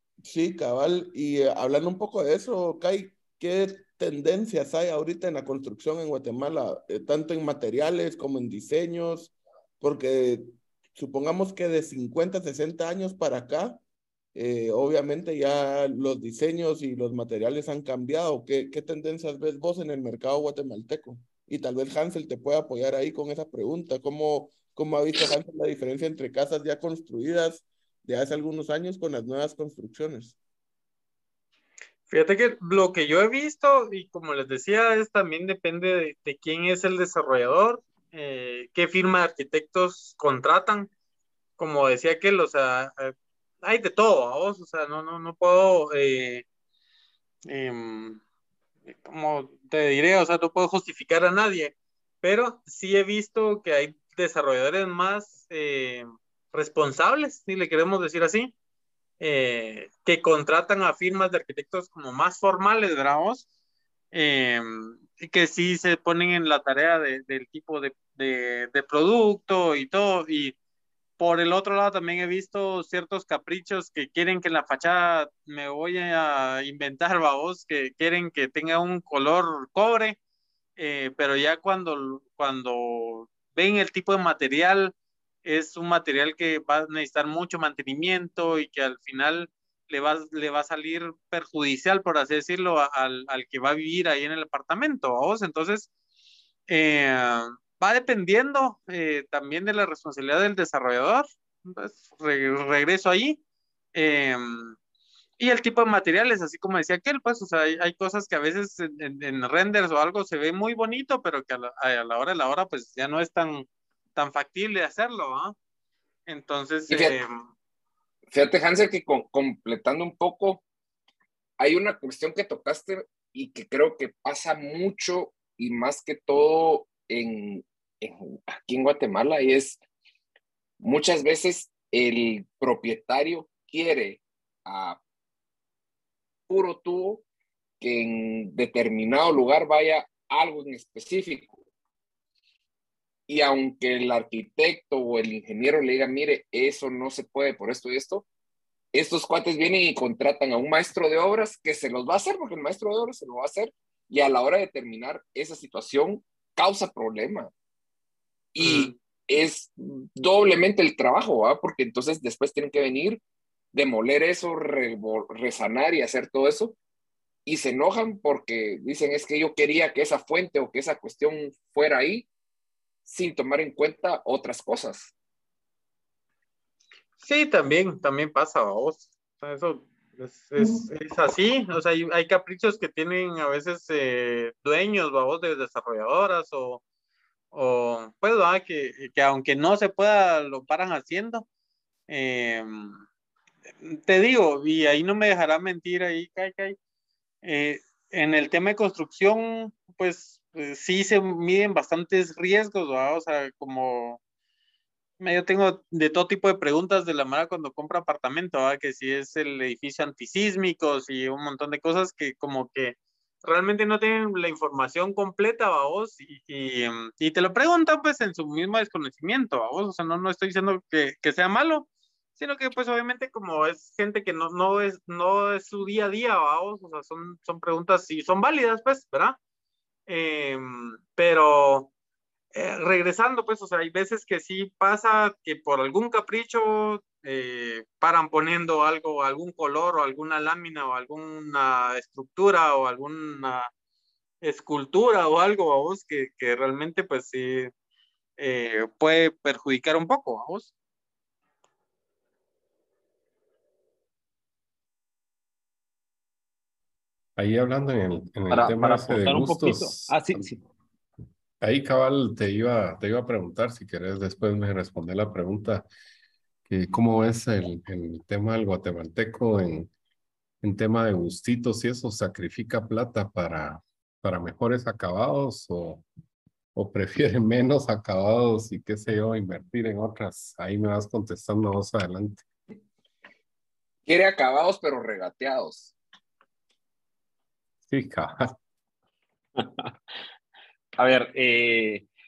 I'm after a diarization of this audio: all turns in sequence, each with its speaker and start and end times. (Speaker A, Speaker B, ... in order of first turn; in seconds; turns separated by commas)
Speaker A: 0.2-13.8, Speaker A: 14.3-30.4, Speaker B: 32.1-40.9, Speaker B: 41.6-46.4, Speaker B: 47.5-48.2, Speaker B: 48.9-58.5, Speaker B: 59.2-63.4, Speaker B: 64.1-70.5, Speaker B: 71.2-80.2, Speaker B: 80.8-84.9, Speaker B: 85.4-95.9, Speaker B: 96.7-103.4, Speaker B: 103.9-104.8, Speaker B: 105.4-115.5, Speaker B: 116.3-117.4, Speaker C: 116.9-117.2, Speaker C: 118.3-120.6, Speaker C: 121.6-129.8, Speaker C: 130.8-135.0, Speaker C: 136.5-137.2, Speaker C: 137.8-141.6, Speaker C: 143.3-148.2, Speaker C: 148.9-157.5, Speaker C: 158.5-163.2, Speaker B: 158.6-158.9, Speaker C: 163.7-166.8, Speaker C: 167.4-172.3, Speaker C: 173.1-175.1, Speaker B: 177.2-186.8, Speaker B: 187.5-191.4, Speaker B: 192.1-193.0, Speaker B: 193.8-196.8, Speaker B: 197.4-204.2, Speaker B: 205.2-229.4, Speaker B: 230.1-231.9, Speaker B: 232.5-243.7, Speaker B: 244.4-247.7, Speaker B: 248.4-250.7, Speaker D: 257.4-260.5, Speaker E: 258.5-260.6, Speaker D: 261.6-265.9, Speaker D: 266.7-269.9, Speaker D: 270.6-276.0, Speaker D: 276.7-282.4, Speaker C: 284.1-285.9, Speaker D: 287.9-288.5, Speaker E: 289.6-289.9, Speaker E: 291.0-292.1